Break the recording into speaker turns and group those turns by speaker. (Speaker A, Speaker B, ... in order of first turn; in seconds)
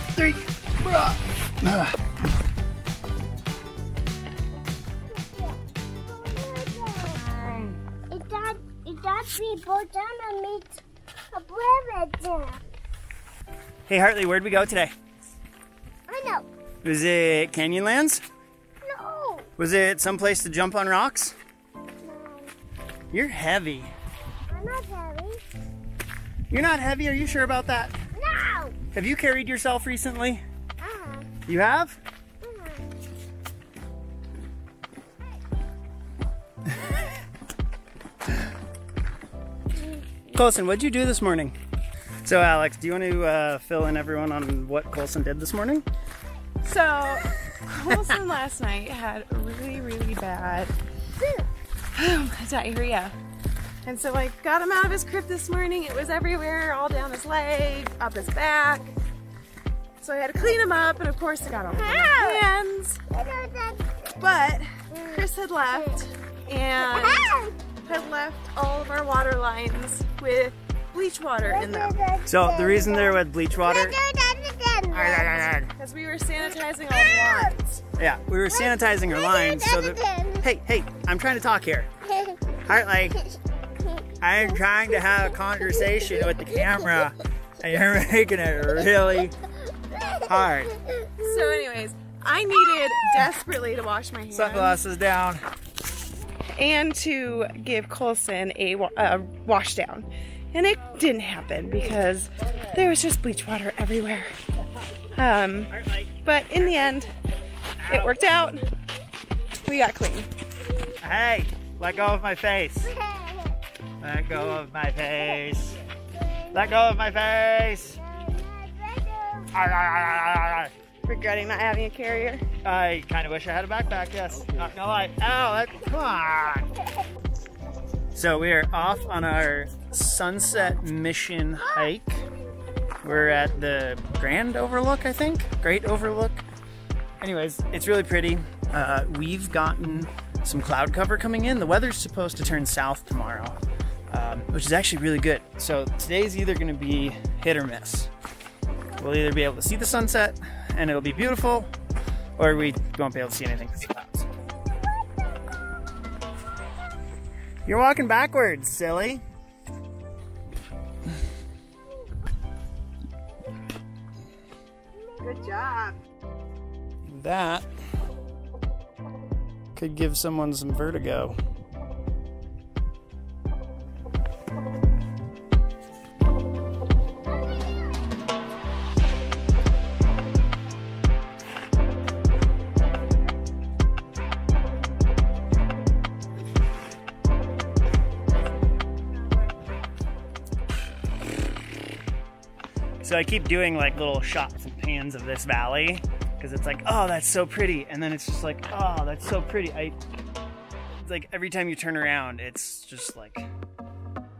Speaker A: 0.1-2.0, 7.3-7.8, 13.9-14.9, 16.8-18.2, 19.6-21.4, 23.1-23.9, 26.5-27.9, 28.9-30.4, 31.4-32.0, 40.3-41.5, 42.2-45.8, 72.3-74.0, 74.9-75.7, 78.0-81.9, 82.6-83.2, 84.2-89.3, 90.2-90.7, 94.3-95.4, 105.7-106.8, 107.8-108.2, 111.0-112.9, 114.0-115.8, 116.5-118.0, 119.5-120.7, 122.6-126.7, 128.1-132.3, 133.0-136.4, 137.2-143.6, 144.1-148.1, 149.0-151.7, 152.4-154.3, 157.7-159.2, 167.0-167.6, 169.7-171.4, 193.0-200.0, 201.0-203.5
Speaker B: 5.1-7.3, 8.1-12.6, 16.1-16.5, 18.8-19.5, 22.0-22.5, 24.5-25.4, 28.1-28.8, 30.8-31.3, 32.4-32.9, 51.2-51.5, 61.7-62.5, 63.1-64.2, 64.9-65.3, 66.8-67.6, 71.4-75.5, 76.9-77.5, 78.5-80.4, 82.0-82.4, 89.9-90.2, 90.9-91.3, 112.8-113.6, 116.1-116.9, 117.9-119.5, 154.6-155.8, 165.0-165.6
Speaker C: 46.6-50.7, 51.9-53.1, 53.8-58.9, 60.0-63.0, 64.2-72.0, 75.8-77.8, 91.2-94.8, 96.5-104.3, 105.1-107.1, 107.9-108.6, 109.6-110.3, 121.0-122.4, 165.2-165.9